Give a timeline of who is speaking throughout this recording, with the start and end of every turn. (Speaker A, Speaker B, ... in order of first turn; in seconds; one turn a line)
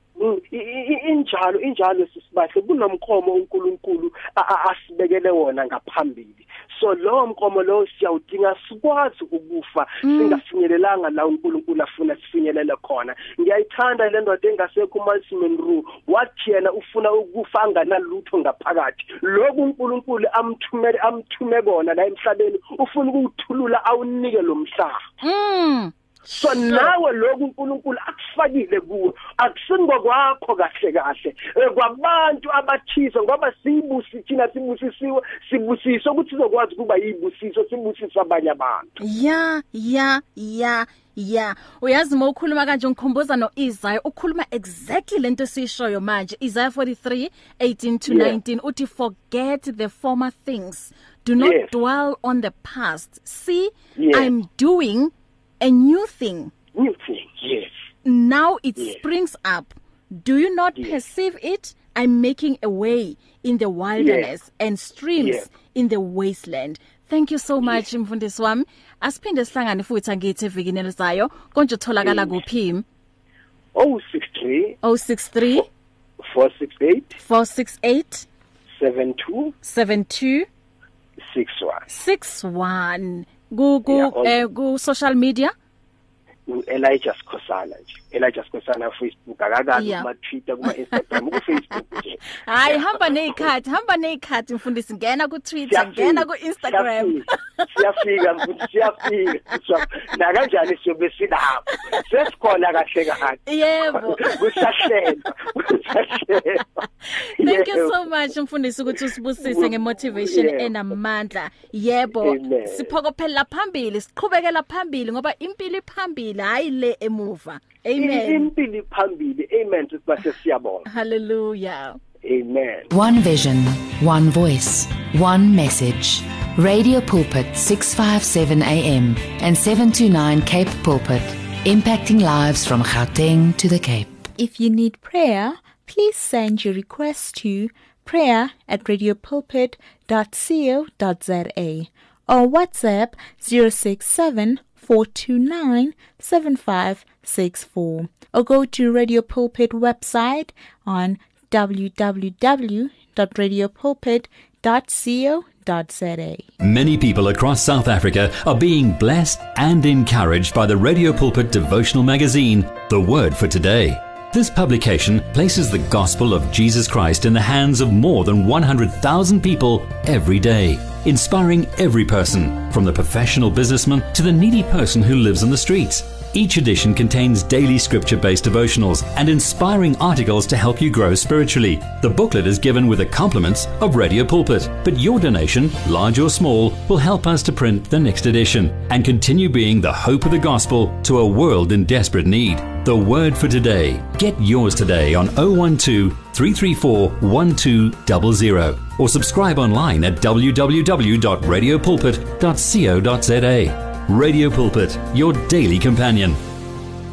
Speaker A: 0.2-25.0
Speaker B: 10.1-10.4
Speaker B: 25.2-26.9
Speaker A: 26.3-39.0
Speaker B: 39.0-56.5
Speaker A: 48.1-48.4
Speaker A: 51.4-51.8
Speaker A: 54.0-54.3
Speaker A: 56.8-57.7
Speaker B: 58.0-72.8
Speaker A: 60.8-61.0
Speaker A: 64.0-64.3
Speaker A: 65.2-65.5
Speaker A: 72.0-72.4
Speaker A: 73.8-74.8
Speaker B: 74.8-75.7
Speaker A: 76.3-77.2
Speaker B: 77.2-78.3
Speaker A: 78.8-79.5
Speaker B: 79.6-80.5
Speaker A: 81.2-81.9
Speaker B: 81.9-85.5
Speaker A: 83.9-84.4
Speaker A: 86.5-93.5
Speaker B: 89.7-90.1
Speaker B: 90.7-91.6
Speaker B: 92.4-97.3
Speaker A: 95.7-106.7
Speaker B: 103.5-104.9
Speaker A: 107.2-108.0
Speaker B: 107.3-118.5
Speaker A: 109.4-110.7
Speaker A: 112.2-112.9
Speaker A: 118.0-120.9
Speaker B: 120.9-122.0
Speaker A: 122.2-122.9
Speaker C: 122.9-134.2
Speaker D: 134.3-156.4
Speaker E: 156.6-206.4